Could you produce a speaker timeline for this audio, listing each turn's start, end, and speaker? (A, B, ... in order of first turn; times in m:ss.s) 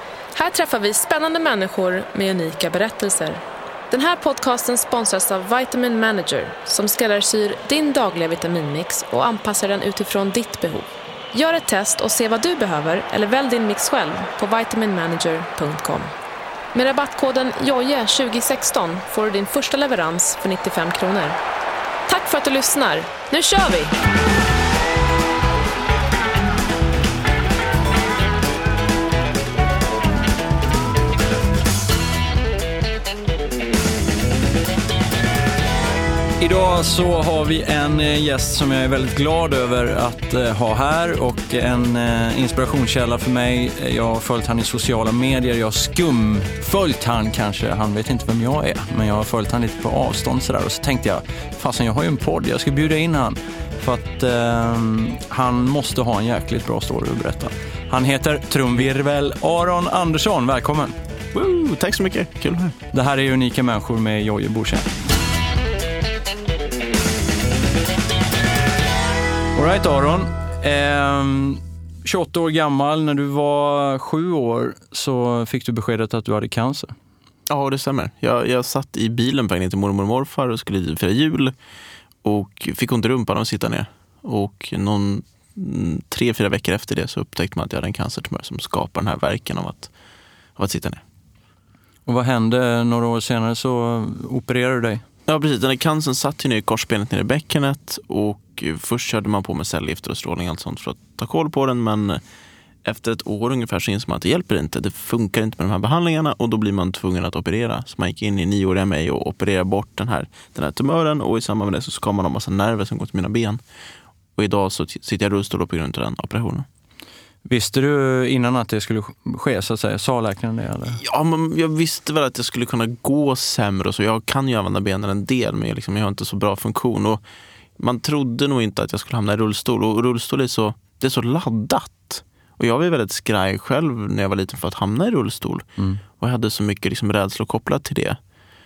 0:00.3-0:16.1 A
0:16.7-0:21.4 A
0:22.1-0:24.0 A
0:36.4-1:01.0 B
1:01.3-1:02.8 C
1:02.9-1:04.9 B
1:09.5-1:16.9 B
1:17.5-1:21.5 C
1:22.2-1:29.9 C
1:30.6-1:31.0 C
1:32.1-1:35.0 B
1:35.3-1:42.2 C
1:42.8-1:53.6 C
1:54.4-1:56.7 C
1:57.5-2:01.0 B
2:00.9-2:07.2 C
2:07.8-2:15.7 C
2:16.2-2:18.2 C